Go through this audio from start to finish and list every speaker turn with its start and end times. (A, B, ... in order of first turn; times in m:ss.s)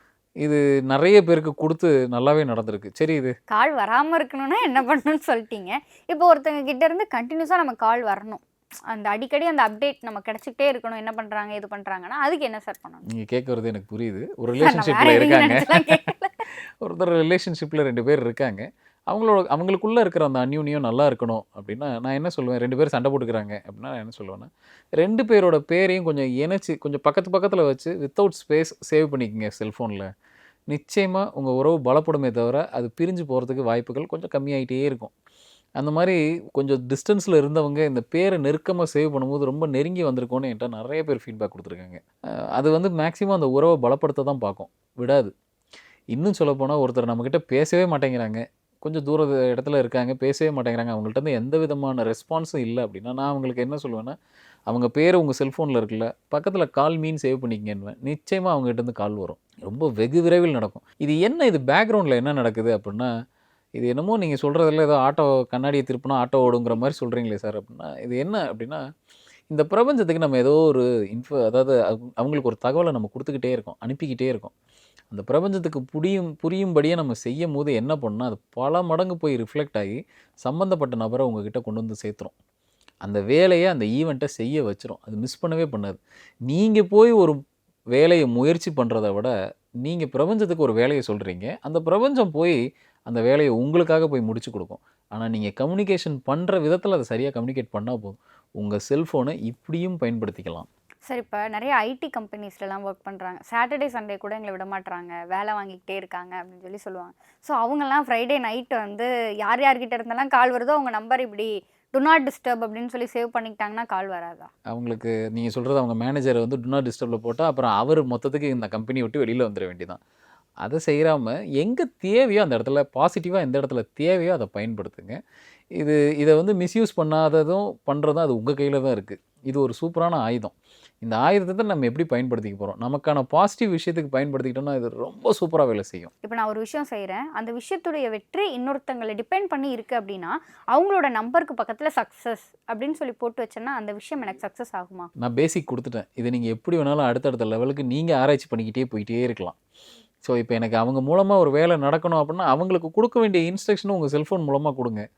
0:00.4-0:03.3 A
0:03.5-0:13.0 B
0:13.1-0:30.1 A
0:14.6-0:16.4 B
0:30.7-0:35.1 A
0:35.8-0:42.0 A
0:42.6-0:45.3 A
0:46.1-0:54.2 A
0:54.7-1:03.1 A
1:03.8-1:08.8 A
1:09.5-1:14.5 A
1:15.1-1:22.3 A
1:23.0-1:27.4 A
1:27.9-1:40.7 A
1:41.1-1:54.5 B
1:54.7-2:00.0 A
2:00.6-2:05.2 A
2:05.8-2:16.1 A
2:16.2-2:25.1 B
2:25.2-2:29.6 A
2:30.2-2:35.0 A